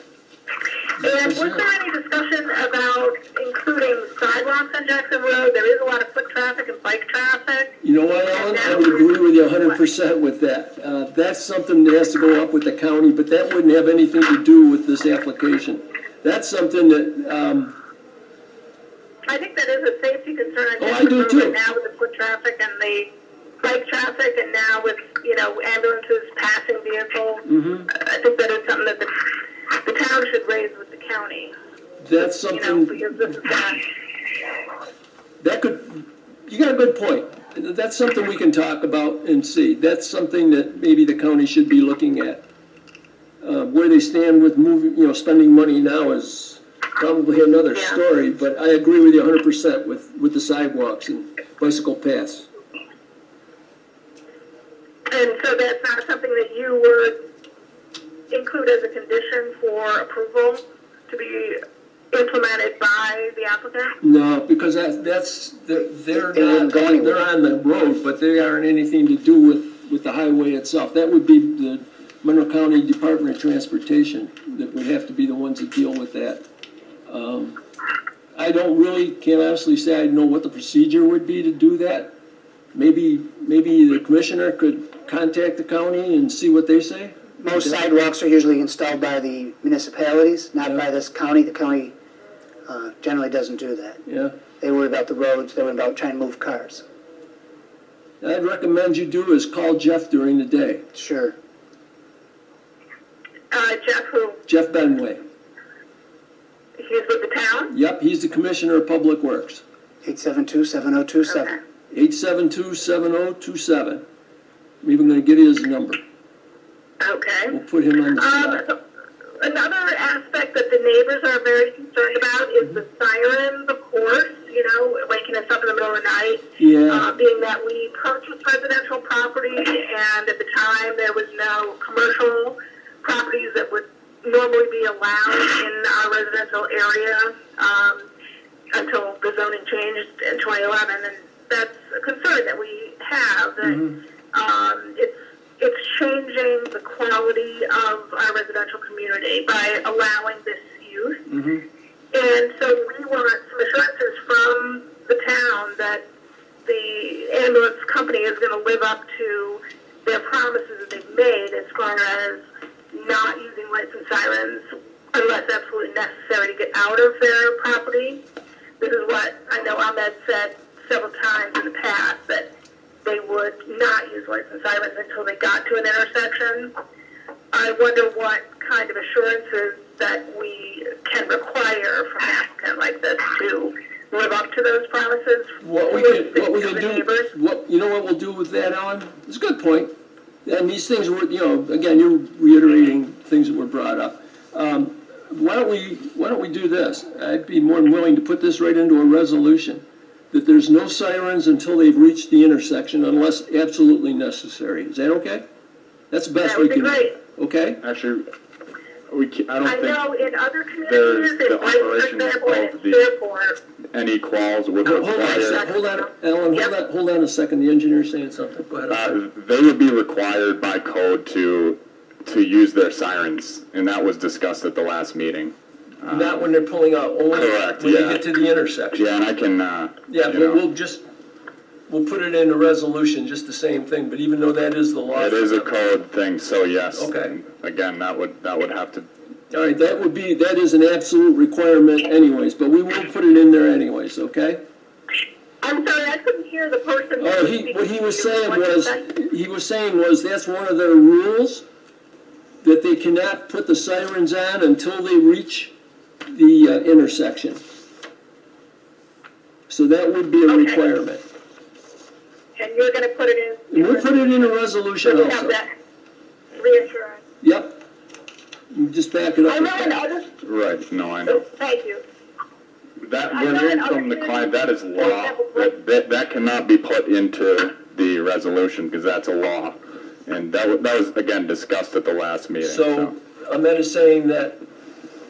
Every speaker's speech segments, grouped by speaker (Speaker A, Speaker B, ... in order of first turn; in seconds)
Speaker A: 1.0-7.7, 8.3-9.2, 19.3-23.1, 23.6-31.5, 32.5-33.8, 47.7-48.0, 55.1-57.2, 58.3-61.6, 62.1-64.0, 103.5-104.4, 106.8-107.7, 111.3-111.6, 117.0-117.5, 118.2-118.8, 119.4-138.1, 138.7-151.2, 152.1-156.0, 156.6-168.2, 168.8-172.5, 173.0-176.7, 177.5-187.3, 206.4-207.2, 209.6-213.6, 215.2-216.7, 245.6-249.1, 260.5-260.8, 262.6-265.7, 266.5-267.2, 269.4-270.3, 271.2-272.0, 273.3-275.7
Speaker B: 1.2-1.6, 7.8-17.8, 20.8-21.6, 27.4-27.9, 32.0-33.0, 35.4-42.4, 43.4-52.5, 64.0-76.4, 77.1-77.6, 78.3-82.1, 82.7-87.8, 94.1-94.3, 98.2-100.8, 104.5-105.2, 107.7-109.6, 111.9-114.0, 114.8-116.0, 117.5-118.6, 126.6-127.1, 143.6-144.0, 151.3-151.6, 185.6-189.9, 190.4-205.4, 206.1-207.8, 214.9-219.2, 226.1-229.1, 230.1-231.0, 231.9-235.7, 236.9-237.4, 239.5-244.6, 247.2-251.6, 252.6-255.7, 256.3-257.6, 259.7-261.2, 263.7-265.6, 267.4-267.8, 268.7-270.0, 282.6-284.6
Speaker C: 66.2-67.2, 87.4-91.9, 92.7-94.0, 94.6-96.8, 100.9-101.3, 110.0-111.6
Speaker D: 207.8-208.3, 209.1-210.0, 210.8-213.0, 213.9-215.6, 218.9-226.5, 227.3-228.2, 228.9-230.6, 235.1-239.1, 270.4-271.4, 273.0-283.1